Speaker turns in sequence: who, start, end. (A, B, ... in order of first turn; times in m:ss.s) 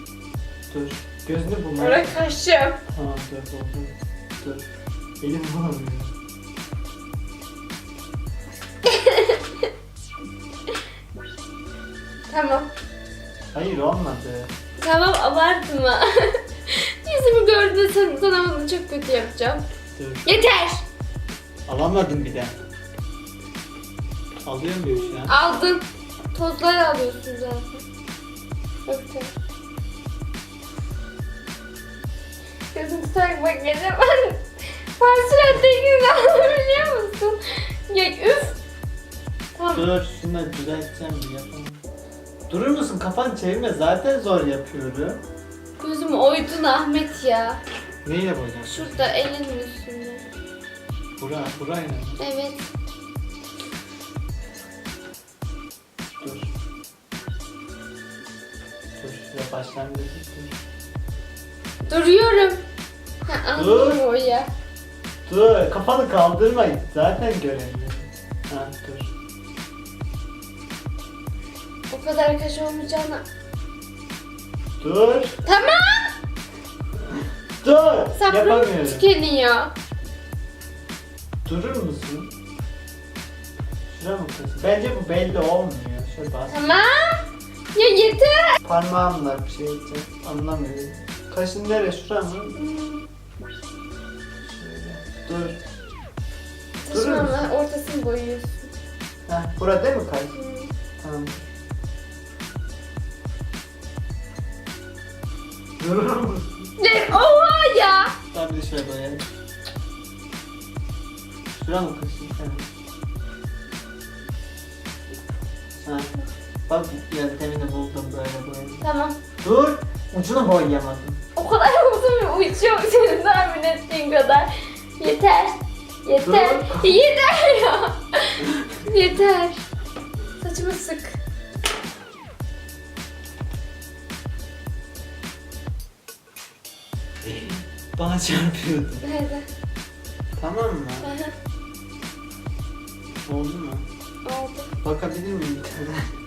0:00.7-0:02.2 A
0:01.8-0:02.8 B
0:02.9-0:04.7 A
0:05.2-0:06.1 A
0:08.9-0:09.4 B
0:12.3-0:12.7 B
0:13.5-0:14.5 A
0:14.8-0:19.7 B
0:20.0-0:20.3 A
0:20.2-0:20.8 B
0:21.7-0:22.6 A
0:24.4-0:25.4 A
0:25.1-0:27.8 B
0:28.9-0:29.3 B
0:32.7-0:34.5 B
0:35.0-0:38.6 B
0:39.6-0:39.8 B
0:39.7-0:41.8 A
0:42.5-0:45.2 A
0:45.8-0:47.6 B
0:48.0-0:49.2 A
0:48.7-0:50.3 B
0:51.2-0:52.2 A
0:52.2-0:52.7 B
0:56.2-0:56.5 A
0:59.0-1:00.6 A
1:01.8-1:02.6 B
1:03.2-1:04.5 B
1:03.6-1:04.0 A
1:05.3-1:09.1 A
1:11.9-1:13.2 B
1:14.8-1:15.4 A
1:15.4-1:16.1 B
1:17.6-1:19.0 A
1:18.2-1:19.7 B
1:21.4-1:22.3 A
1:23.9-1:26.7 A
1:26.5-1:28.6 B
1:28.6-1:32.6 A
1:32.6-1:33.1 B
1:34.4-1:35.6 A
1:36.8-1:38.7 B
1:36.9-1:37.5 A
1:39.3-1:40.4 A
1:40.3-1:40.7 B
1:41.0-1:41.4 A
1:45.8-1:46.7 A
1:46.8-1:48.1 B
1:48.3-1:49.2 A
1:51.6-1:52.7 A
1:55.8-1:56.1 A
1:56.7-1:58.8 A
1:58.8-1:59.2 B
1:59.4-2:01.2 A
2:01.4-2:09.6 B
2:06.2-2:06.9 A
2:10.4-2:11.2 B
2:17.2-2:19.1 A
2:19.0-2:19.5 B
2:20.4-2:21.1 A
2:21.0-2:21.3 B
2:23.3-2:23.8 A
2:24.2-2:24.7 B
2:24.8-2:26.1 A